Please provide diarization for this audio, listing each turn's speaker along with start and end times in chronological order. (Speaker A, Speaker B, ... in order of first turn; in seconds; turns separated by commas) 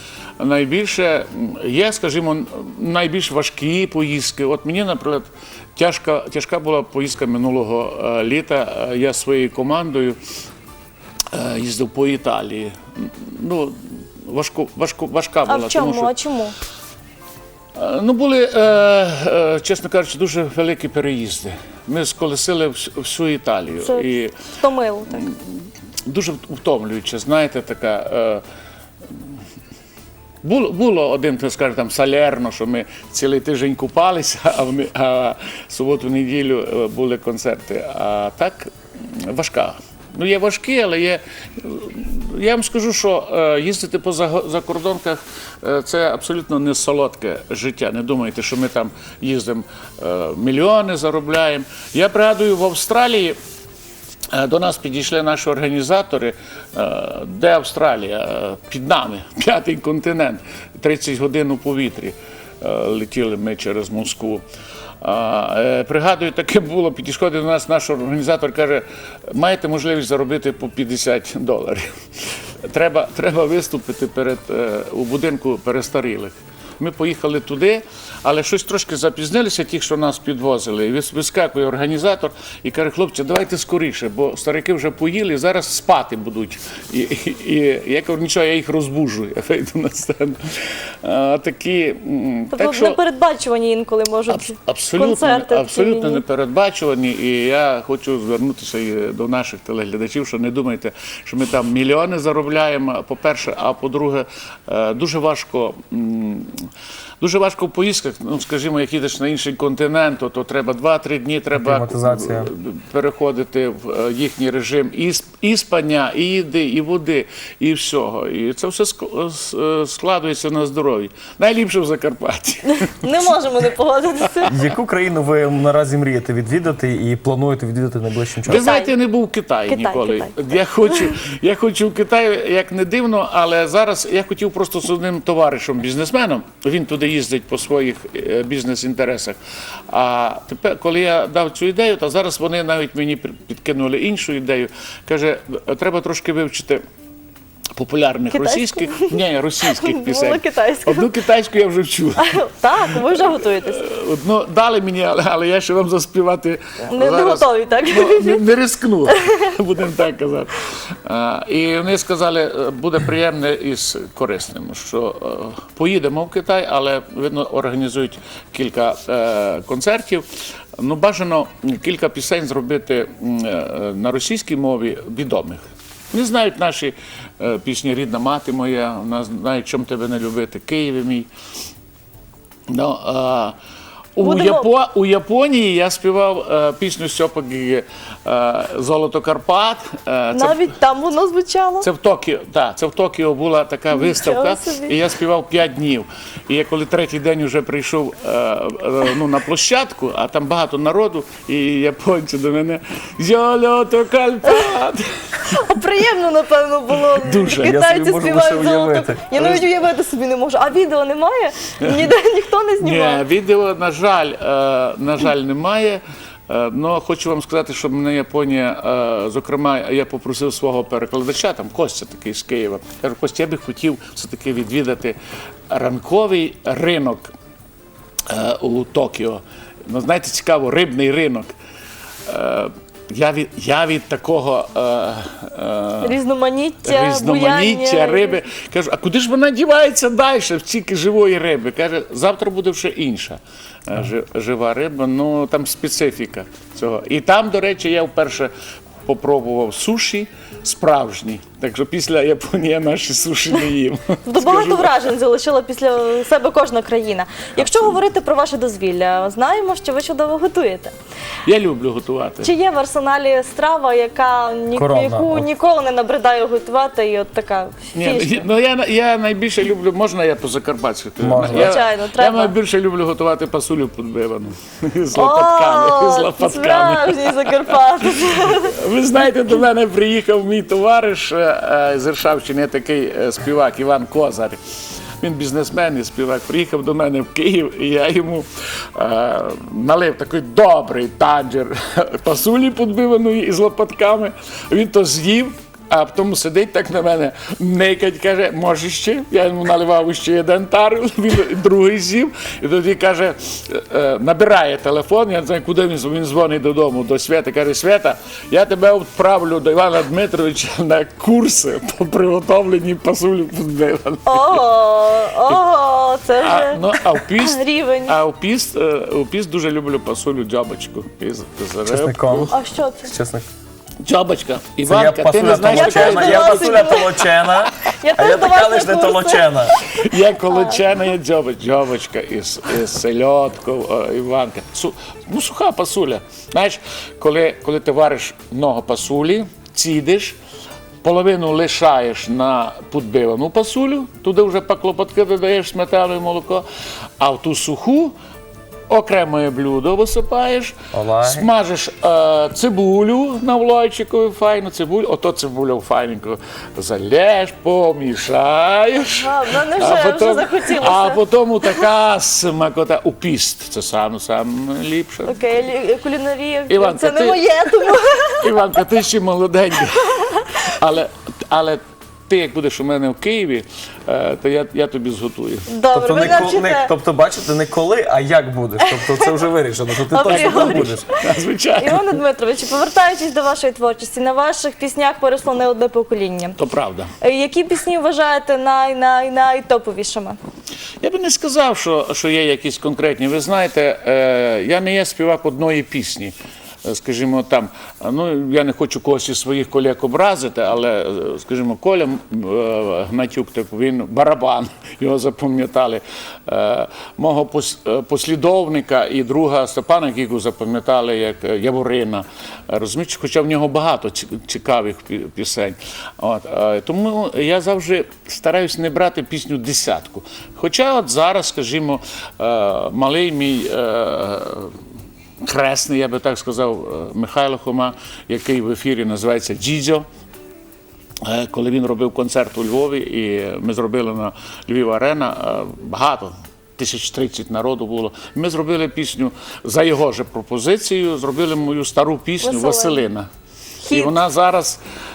Speaker A: 0.4-10.2, Speaker A: 11.3-16.1, Speaker B: 15.5-16.6, Speaker A: 17.8-24.3, Speaker B: 23.8-25.3, Speaker A: 26.1-28.4, Speaker A: 30.4-53.4, Speaker A: 54.3-64.4, Speaker A: 65.0-71.9, Speaker A: 72.6-93.0, Speaker B: 92.5-96.2, Speaker A: 94.3-106.7, Speaker A: 107.2-123.0, Speaker C: 111.5-112.5, Speaker B: 122.7-124.5, Speaker C: 124.5-128.7, Speaker A: 128.4-139.4, Speaker B: 128.6-128.9, Speaker B: 129.7-130.3, Speaker A: 139.9-146.8, Speaker A: 147.8-170.2, Speaker B: 148.3-149.2, Speaker B: 149.7-151.1, Speaker B: 152.2-153.8, Speaker B: 156.9-158.4, Speaker A: 170.8-181.3, Speaker A: 182.7-183.6, Speaker A: 184.2-190.6, Speaker B: 184.2-184.7, Speaker B: 190.3-191.9, Speaker A: 191.8-205.1, Speaker B: 193.9-194.9, Speaker B: 205.4-213.2, Speaker A: 207.1-207.8, Speaker C: 207.6-209.6, Speaker A: 211.8-212.1, Speaker A: 212.8-225.2, Speaker A: 225.7-227.3, Speaker A: 228.3-231.5, Speaker A: 232.3-236.2, Speaker B: 236.0-238.4, Speaker A: 236.8-248.5, Speaker A: 249.1-254.9, Speaker B: 254.2-260.9, Speaker A: 257.6-257.9, Speaker A: 261.4-262.5, Speaker B: 262.4-268.4, Speaker C: 264.7-265.5, Speaker A: 267.9-284.6, Speaker C: 271.2-271.7, Speaker B: 271.4-272.5, Speaker B: 275.1-278.7, Speaker A: 285.2-314.6, Speaker B: 314.2-316.8, Speaker A: 316.4-322.5, Speaker B: 317.4-318.1, Speaker C: 321.9-323.4, Speaker B: 322.5-323.1, Speaker A: 324.0-327.0, Speaker C: 324.8-329.7, Speaker B: 325.7-327.2, Speaker B: 328.0-330.7, Speaker A: 329.9-340.4, Speaker A: 341.0-346.6, Speaker A: 347.2-348.1, Speaker A: 348.9-365.3, Speaker C: 350.9-351.5, Speaker B: 359.2-361.2, Speaker B: 365.2-368.5, Speaker A: 366.7-375.7, Speaker B: 375.7-376.9, Speaker C: 375.9-381.1, Speaker B: 378.9-379.2, Speaker B: 380.1-381.1, Speaker A: 380.2-382.2, Speaker B: 381.8-386.6, Speaker A: 386.6-387.1, Speaker B: 387.2-390.4, Speaker A: 391.0-424.7, Speaker A: 425.4-430.0, Speaker A: 431.2-443.3, Speaker B: 442.4-443.0, Speaker B: 443.9-444.1, Speaker A: 443.9-444.8